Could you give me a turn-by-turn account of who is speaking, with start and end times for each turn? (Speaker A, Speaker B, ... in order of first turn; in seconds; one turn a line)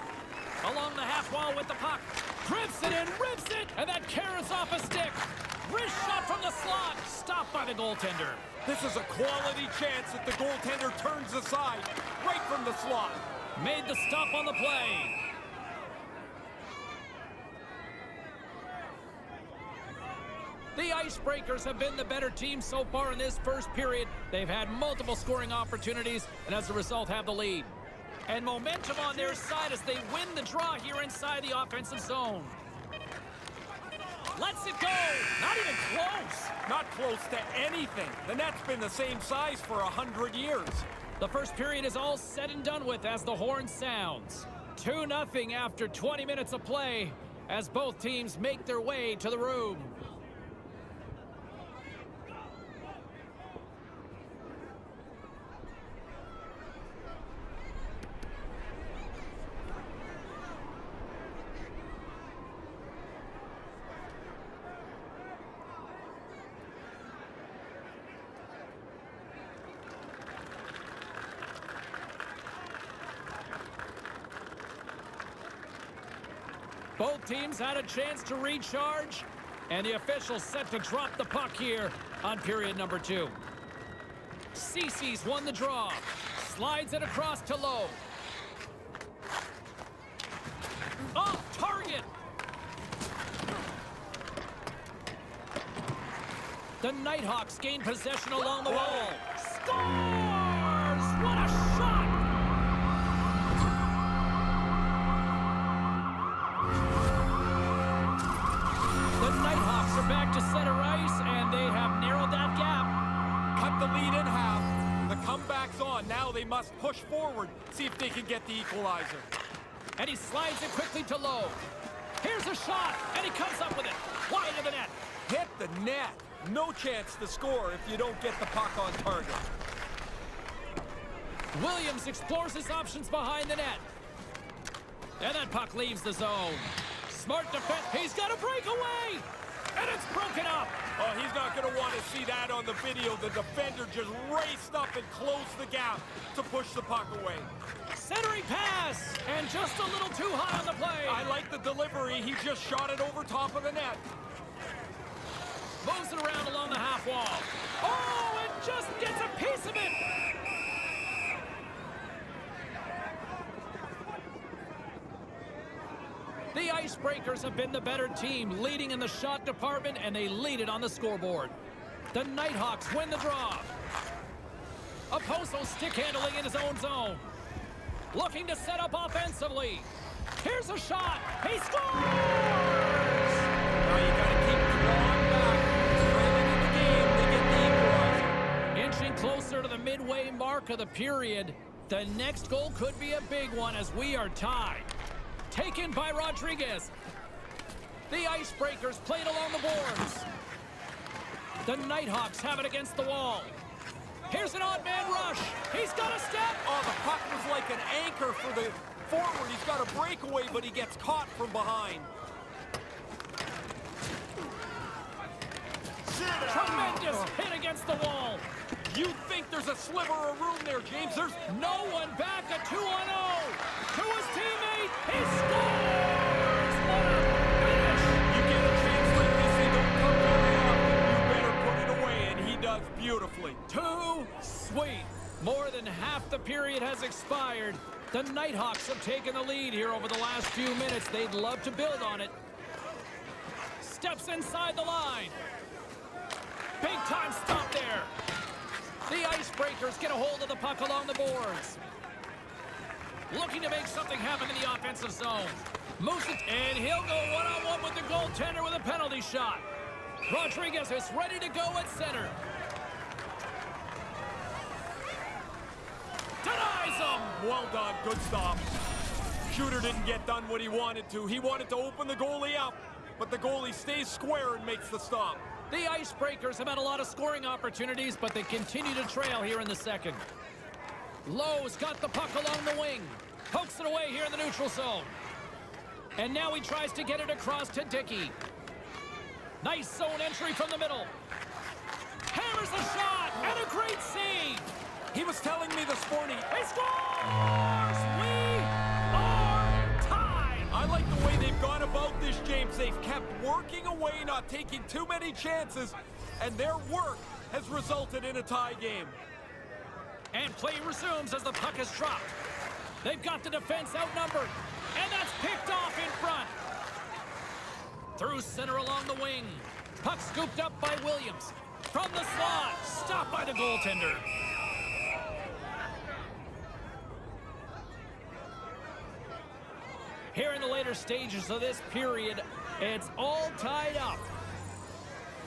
Speaker A: 0.6-8.4
Speaker B: 8.7-13.2
Speaker A: 13.6-15.2
Speaker A: 20.7-32.6
Speaker A: 34.3-36.5
Speaker B: 36.6-40.9
Speaker A: 41.2-50.0
Speaker A: 77.0-83.4
Speaker A: 84.5-88.0
Speaker A: 91.1-92.1
Speaker A: 96.8-102.2
Speaker B: 98.7-99.1
Speaker A: 109.2-112.9
Speaker B: 113.5-119.2
Speaker A: 120.0-121.6
Speaker A: 122.2-124.9
Speaker B: 125.3-129.4
Speaker A: 131.5-133.8
Speaker A: 135.2-139.2
Speaker A: 139.8-140.8
Speaker B: 141.0-147.5
Speaker A: 147.9-151.3
Speaker B: 151.1-154.0
Speaker A: 155.8-160.0
Speaker A: 166.5-171.5
Speaker A: 172.1-173.7
Speaker A: 175.1-177.3
Speaker A: 178.1-183.5
Speaker B: 183.8-188.4
Speaker A: 188.7-194.9
Speaker A: 195.5-196.9
Speaker A: 198.1-200.3
Speaker A: 201.6-203.5
Speaker A: 204.3-206.6
Speaker B: 206.6-212.1
Speaker A: 216.3-218.4
Speaker B: 218.8-221.4
Speaker A: 221.5-228.2
Speaker B: 228.2-233.6
Speaker A: 233.7-242.3
Speaker A: 243.8-245.4
Speaker A: 246.8-248.1
Speaker A: 249.1-251.8
Speaker A: 253.3-259.6
Speaker A: 260.2-262.4
Speaker A: 266.4-267.4
Speaker B: 267.3-268.7
Speaker B: 269.5-275.4
Speaker A: 275.7-280.2
Speaker A: 281.2-285.2
Speaker A: 286.2-288.4
Speaker A: 289.6-291.1
Speaker A: 292.3-294.7
Speaker B: 295.1-296.5
Speaker A: 296.5-300.7
Speaker B: 300.7-309.2
Speaker A: 310.3-312.3
Speaker A: 313.0-316.6
Speaker A: 318.1-324.3
Speaker A: 330.3-334.2